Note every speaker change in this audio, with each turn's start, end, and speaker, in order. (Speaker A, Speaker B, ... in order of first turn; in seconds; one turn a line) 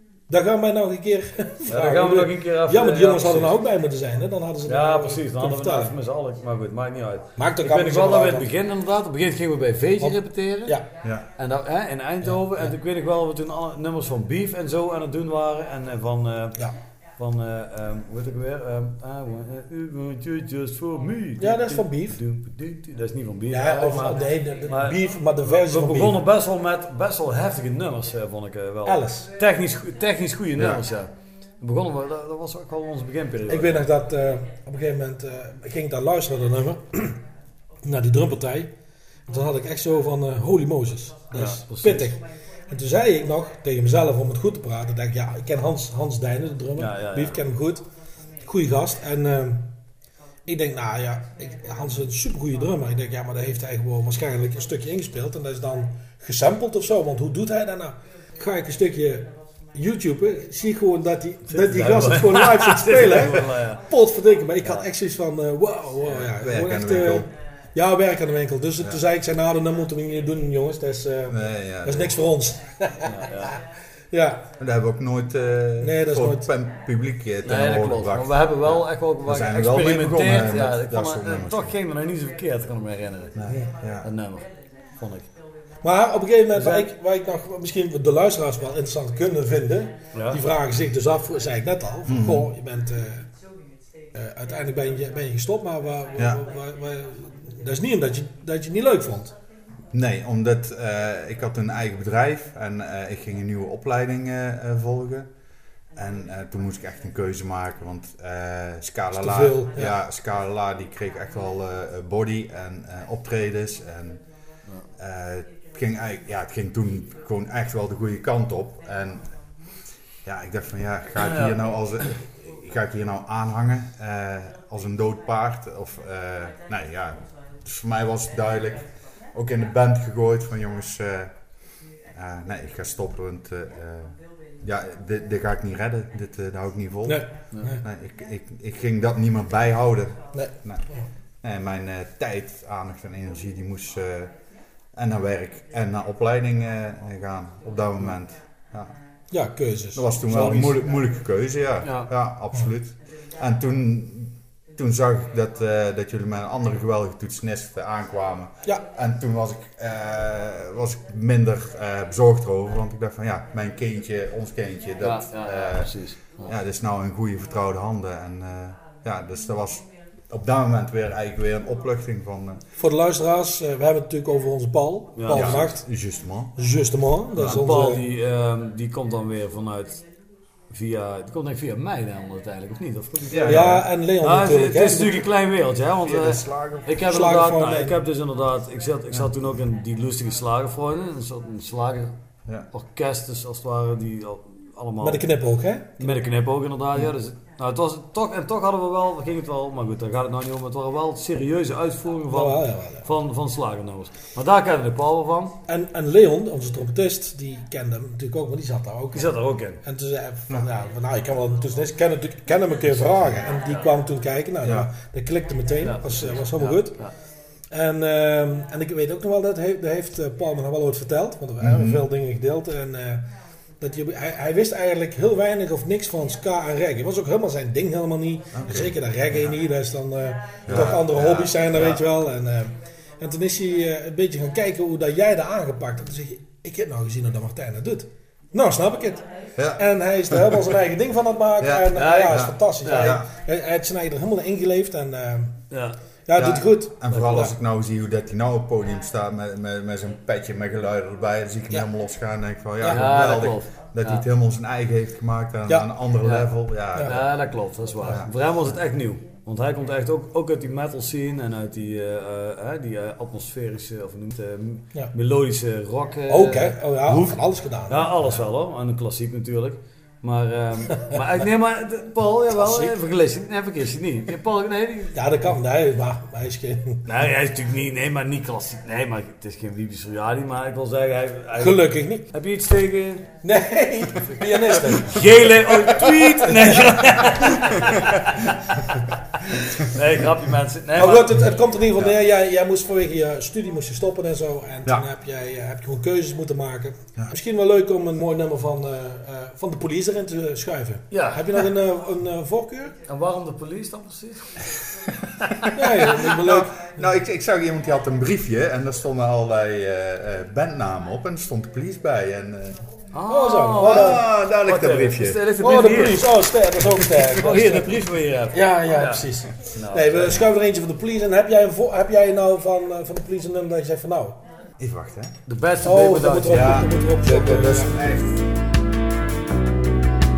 Speaker A: 0.3-6.0
Speaker B: 1.7-3.6
Speaker B: 4.7-10.8
Speaker A: 7.4-8.5
Speaker A: 10.0-10.9
Speaker B: 11.4-33.9
Speaker A: 21.4-22.2
Speaker A: 23.5-26.2
Speaker A: 28.9-29.3
Speaker A: 33.5-37.2
Speaker A: 37.8-38.7
Speaker A: 39.3-47.9
Speaker B: 41.3-42.1
Speaker B: 46.8-47.4
Speaker A: 48.4-49.7
Speaker A: 50.5-73.5
Speaker B: 61.5-63.9
Speaker C: 63.0-63.4
Speaker B: 64.6-64.9
Speaker C: 66.2-67.3
Speaker C: 71.3-72.3
Speaker B: 73.1-73.5
Speaker A: 74.1-74.5
Speaker C: 74.6-81.8
Speaker A: 75.8-76.5
Speaker B: 77.5-83.4
Speaker C: 83.3-84.1
Speaker A: 83.5-83.7
Speaker B: 84.0-85.3
Speaker A: 85.8-93.3
Speaker B: 86.5-86.9
Speaker B: 90.1-90.4
Speaker C: 92.1-92.5
Speaker A: 94.1-99.3
Speaker C: 99.9-105.3
Speaker C: 106.0-114.2
Speaker A: 109.2-109.9
Speaker C: 115.0-119.3
Speaker C: 120.2-131.5
Speaker B: 121.2-121.6
Speaker C: 132.1-140.9
Speaker A: 137.1-137.8
Speaker A: 140.3-141.1
Speaker C: 141.4-144.4
Speaker C: 144.9-148.9
Speaker A: 149.3-150.8
Speaker C: 149.9-172.6
Speaker B: 151.8-152.1
Speaker B: 165.0-166.6
Speaker A: 172.8-178.1
Speaker B: 175.2-175.6
Speaker C: 175.3-176.6
Speaker B: 177.4-180.1
Speaker B: 180.7-192.2
Speaker C: 183.3-183.8
Speaker A: 183.4-185.3
Speaker C: 186.0-187.0
Speaker A: 187.0-188.0
Speaker B: 192.7-195.3
Speaker A: 195.0-196.2
Speaker B: 196.0-205.6
Speaker A: 202.3-203.1
Speaker A: 205.7-217.1
Speaker B: 209.1-209.8
Speaker B: 213.0-213.9
Speaker C: 214.6-214.9
Speaker B: 215.8-217.1
Speaker A: 217.7-245.6
Speaker C: 221.6-222.1
Speaker C: 228.5-229.6
Speaker C: 230.7-232.0
Speaker C: 239.6-240.7
Speaker C: 241.6-243.3
Speaker B: 241.9-243.2
Speaker B: 245.7-246.0
Speaker A: 246.3-247.5
Speaker C: 246.4-257.2
Speaker B: 247.1-247.4
Speaker B: 252.8-254.2
Speaker B: 256.2-267.4
Speaker A: 256.9-258.2
Speaker A: 266.3-268.1
Speaker B: 267.9-275.2
Speaker A: 272.6-272.9
Speaker A: 275.1-277.0
Speaker B: 277.1-283.3
Speaker A: 281.6-282.2
Speaker A: 283.4-287.4
Speaker B: 284.2-288.3
Speaker B: 289.9-292.1
Speaker A: 291.0-302.9
Speaker B: 301.1-301.4
Speaker B: 303.1-304.6
Speaker A: 305.7-306.9
Speaker C: 305.9-312.8
Speaker B: 313.1-316.3
Speaker A: 313.2-314.3
Speaker C: 313.8-315.4
Speaker A: 315.6-318.0
Speaker C: 316.8-317.4
Speaker B: 317.3-320.4
Speaker A: 318.5-324.4
Speaker C: 324.8-325.4
Speaker B: 325.5-326.9
Speaker A: 325.8-328.1
Speaker C: 326.5-328.4